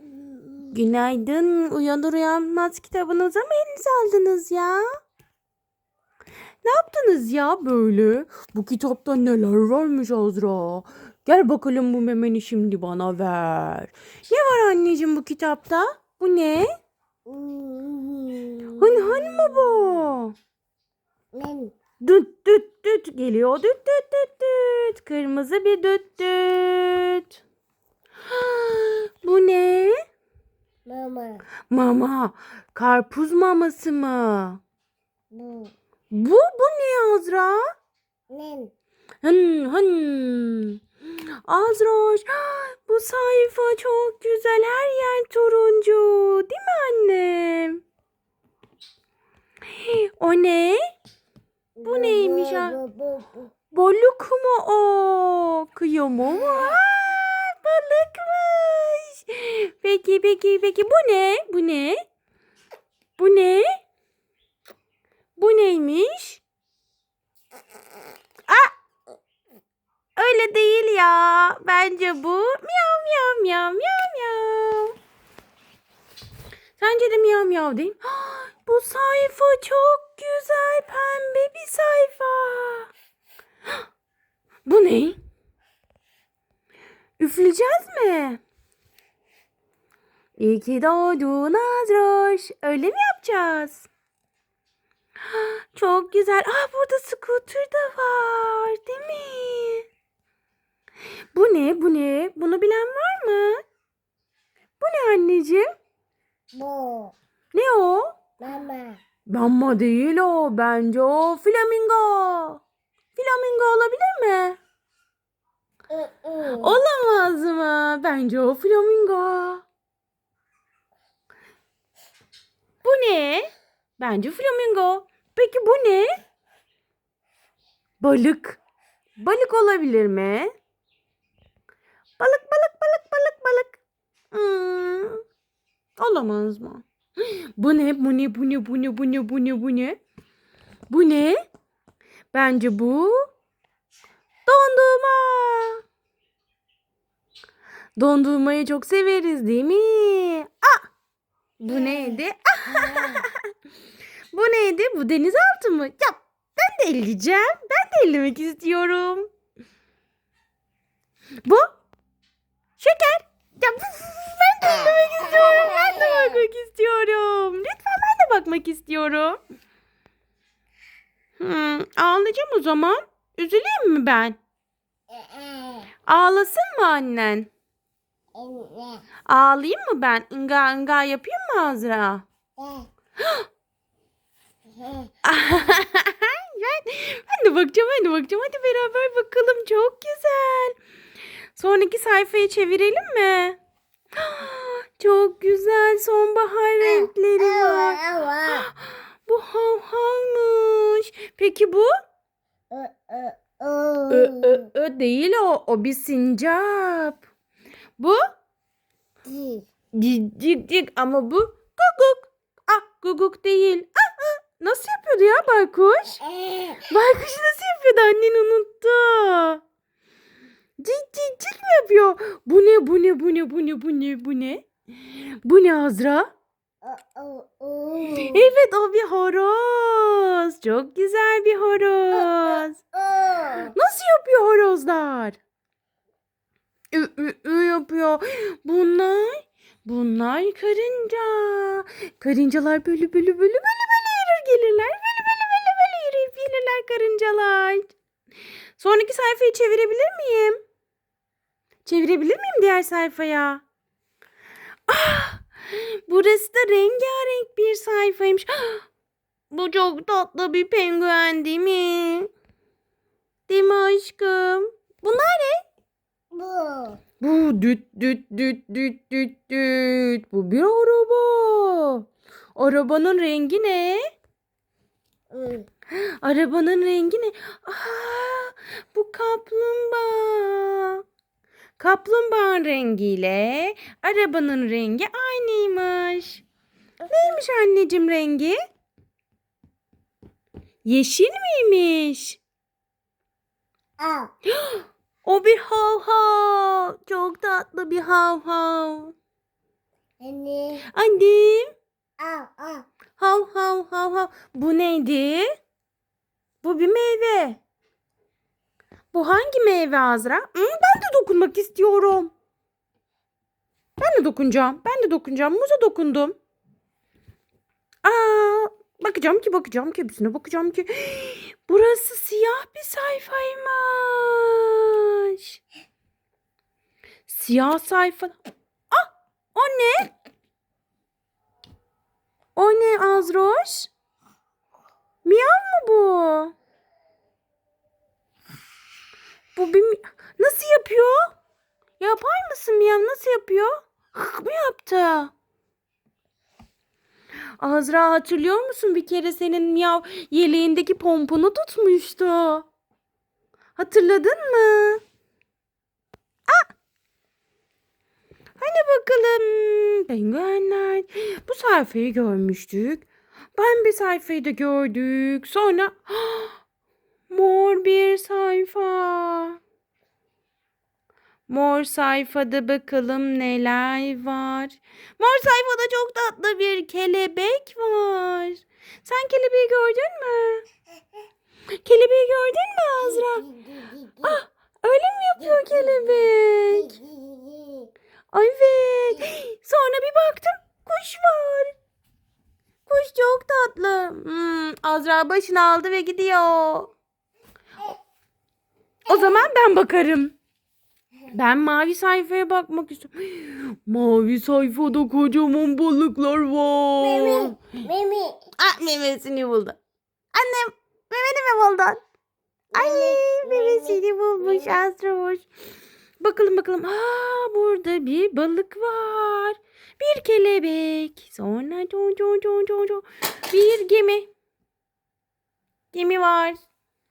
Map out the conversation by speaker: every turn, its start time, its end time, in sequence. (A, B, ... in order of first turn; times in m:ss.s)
0:00.2-0:00.7 A
0:00.7-0:04.9 B
0:06.6-0:16.7 B
0:17.3-0:19.9 A
0:18.8-0:20.3 B
0:21.3-0:21.7 A
0:22.0-0:27.4 B
0:28.3-0:30.0 B
0:30.9-0:31.4 A
0:31.7-0:34.6 B
0:35.3-0:35.7 A
0:36.1-0:37.6 B
0:38.3-0:38.7 A
0:39.2-0:40.8 B
0:41.4-0:47.8 B
0:49.7-0:50.8 B
0:51.8-0:53.5 A
0:51.8-0:52.8 B
0:53.7-1:02.0 B
1:03.2-1:03.7 B
1:05.4-1:06.4 B
1:08.5-1:08.7 B
1:10.2-1:15.0 B
1:16.8-1:22.9 B
1:24.7-1:25.2 B
1:27.2-1:28.4 B
1:30.4-1:33.9 B
1:35.3-1:39.8 B
1:41.3-1:43.6 B
1:44.8-1:45.7 B
1:46.5-1:47.2 A
1:47.5-1:48.2 B
1:48.4-1:49.0 A
1:49.3-1:52.6 B
1:53.2-1:54.6 B
1:55.9-1:56.8 A
1:56.5-1:59.6 B
2:02.8-2:06.1 B
2:08.0-2:08.6 B
2:09.2-2:10.5 B
2:12.2-2:13.8 B
2:14.3-2:15.2 B
2:16.0-2:20.0 B
2:20.9-2:21.4 B
2:22.3-2:23.2 B
2:24.5-2:25.8 B
2:28.0-2:30.9 B
2:31.6-2:33.5 B
2:31.7-2:33.2 A
2:34.3-2:39.3 B
2:42.8-2:49.4 B
2:51.4-2:54.4 B
2:55.1-2:55.9 A
2:56.1-2:57.5 B
2:58.4-2:59.0 A
2:59.3-3:02.3 B
3:02.6-3:02.9 A
3:03.2-3:03.5 B
3:04.8-3:05.1 A
3:05.2-3:10.8 B
3:11.6-3:13.6 B
3:14.2-3:21.9 B
3:16.8-3:18.7 A
3:22.7-3:24.6 A
3:24.1-3:27.2 B
3:29.3-3:29.6 A
3:29.9-3:36.2 B
3:36.3-3:36.8 A
3:36.8-3:39.6 B
3:40.8-3:44.7 B
3:45.4-3:46.3 B
3:46.8-3:48.5 A
3:48.1-3:52.8 B
3:52.9-3:53.7 A
3:53.7-3:55.4 B
3:56.9-4:07.9 B
4:08.8-4:10.6 B
4:11.8-4:13.6 B
4:14.9-4:18.8 B
4:19.5-4:22.3 B
4:23.5-4:25.6 B
4:26.3-4:27.0 A
4:27.2-4:32.0 B
4:32.6-4:34.0 B
4:35.3-4:35.7 A
4:35.9-4:41.0 B
4:41.8-4:46.4 B
4:47.0-4:47.4 A
4:47.1-4:48.6 B
4:50.8-4:52.4 B
4:54.0-4:54.3 A
4:54.5-4:59.1 B
5:00.2-5:00.8 A
5:00.9-5:01.7 B
5:02.2-5:02.9 A
5:03.2-5:05.5 B
5:06.6-5:07.6 B
5:09.1-5:12.3 B
5:14.0-5:16.4 B
5:18.0-5:25.6 B
5:27.3-5:28.4 B
5:28.9-5:30.1 B
5:32.6-5:33.9 B
5:35.2-5:36.5 B
5:39.6-5:41.2 B
5:42.0-5:45.3 B
5:47.6-5:52.7 B
5:53.8-5:55.0 B
5:58.6-6:06.6 B
6:07.3-6:09.6 B
6:11.5-6:20.6 B
6:21.8-6:23.4 B
6:23.1-6:24.4 A
6:24.2-6:27.0 B
6:25.4-6:27.9 A
6:28.3-6:31.7 B
6:32.9-6:36.9 B
6:39.1-6:40.4 B
6:41.3-6:47.6 B
6:47.0-6:48.4 A
6:48.6-6:49.8 B
6:50.3-6:52.0 B
6:52.7-6:54.8 A
6:52.7-6:55.5 B
6:56.2-7:04.3 B
7:05.9-7:06.6 B